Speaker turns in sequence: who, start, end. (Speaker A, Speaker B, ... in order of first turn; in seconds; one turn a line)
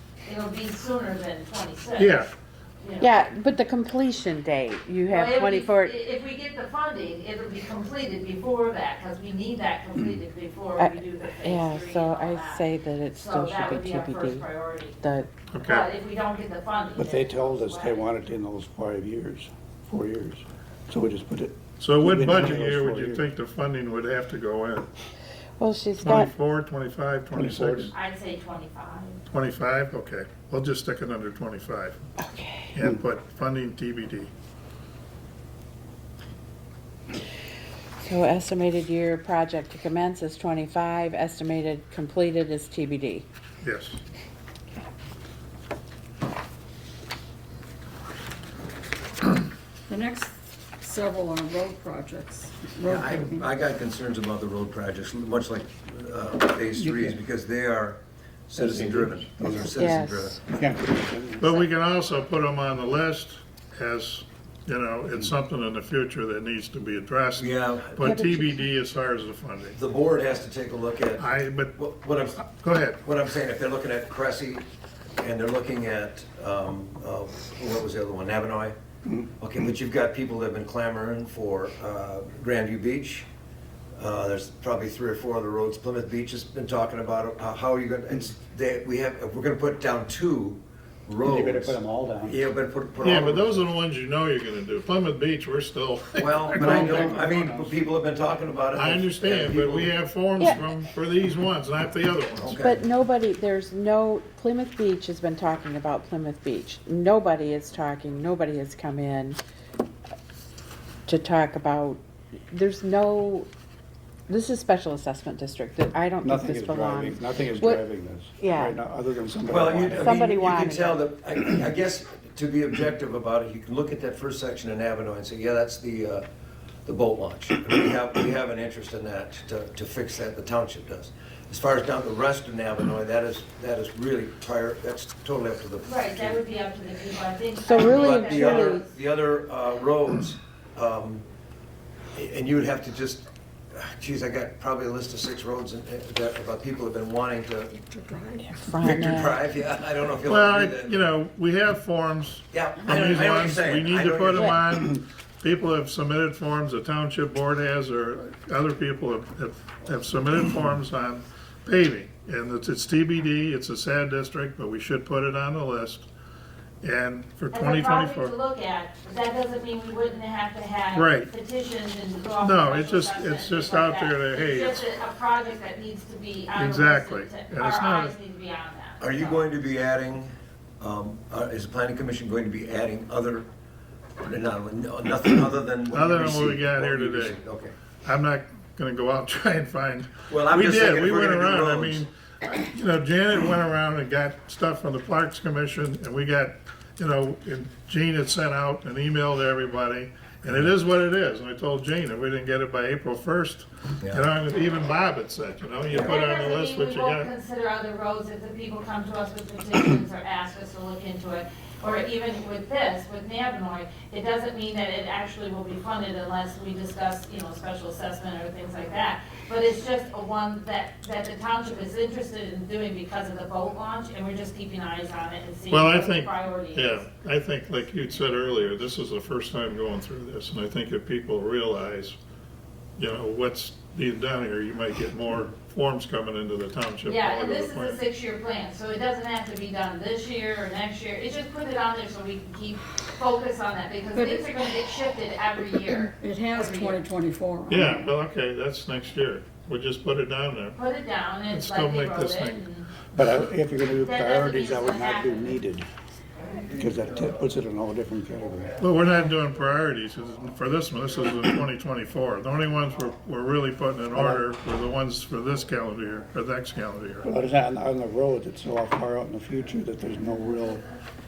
Speaker A: 0.2-2.3
Speaker B: 2.0-2.3
Speaker A: 2.8-3.3
Speaker C: 3.0-6.0
Speaker A: 5.1-15.0
Speaker C: 10.8-14.5
Speaker C: 15.0-15.3
Speaker B: 15.5-15.9
Speaker A: 15.6-18.0
Speaker D: 17.0-23.3
Speaker B: 21.8-24.9
Speaker C: 25.6-26.3
Speaker B: 26.0-27.9
Speaker D: 27.3-27.9
Speaker A: 27.9-29.2
Speaker B: 29.3-32.0
Speaker C: 32.2-32.8
Speaker B: 32.7-34.3
Speaker C: 38.0-43.2
Speaker B: 43.6-44.0
Speaker E: 49.9-53.5
Speaker F: 52.9-60.4
Speaker D: 56.8-57.2
Speaker D: 58.6-59.6
Speaker C: 59.7-60.4
Speaker D: 60.5-61.5
Speaker B: 61.4-69.8
Speaker F: 67.4-68.1
Speaker C: 68.0-68.6
Speaker F: 69.8-72.5
Speaker B: 71.2-71.8
Speaker B: 72.5-73.0
Speaker F: 73.0-74.7
Speaker F: 75.2-78.8
Speaker D: 79.1-79.3
Speaker F: 79.4-83.3
Speaker F: 84.0-93.7
Speaker D: 91.2-92.4
Speaker B: 93.0-97.2
Speaker F: 96.2-100.0
Speaker D: 96.5-97.8
Speaker C: 96.6-97.0
Speaker B: 98.7-102.6
Speaker F: 102.4-102.8
Speaker C: 102.6-109.4
Speaker C: 111.1-113.5
Speaker C: 114.3-117.8
Speaker D: 116.2-120.2
Speaker C: 118.4-118.8
Speaker F: 119.5-126.3
Speaker C: 119.9-121.1
Speaker F: 126.8-136.4
Speaker A: 135.8-138.9
Speaker C: 137.6-138.9
Speaker F: 137.8-141.2
Speaker F: 142.1-147.7
Speaker E: 147.7-148.6
Speaker C: 148.4-149.4
Speaker F: 148.8-150.9
Speaker B: 150.3-166.1
Speaker F: 152.5-154.6
Speaker C: 154.3-154.6
Speaker B: 166.8-168.3
Speaker A: 167.5-179.4
Speaker B: 170.9-171.3
Speaker B: 172.4-174.9
Speaker B: 176.6-178.2
Speaker F: 179.0-183.5
Speaker F: 184.2-187.7
Speaker B: 185.9-187.4
Speaker B: 188.0-207.3
Speaker F: 190.3-192.1
Speaker A: 205.9-227.1
Speaker B: 225.7-232.2
Speaker B: 233.0-238.0
Speaker A: 237.1-247.0
Speaker E: 244.1-244.5
Speaker E: 246.0-248.1
Speaker B: 247.7-250.8
Speaker A: 250.8-252.9
Speaker B: 251.5-252.6
Speaker D: 253.1-255.9
Speaker A: 254.0-255.6
Speaker D: 256.7-258.8
Speaker B: 258.8-267.3
Speaker D: 264.1-264.4
Speaker D: 267.2-270.8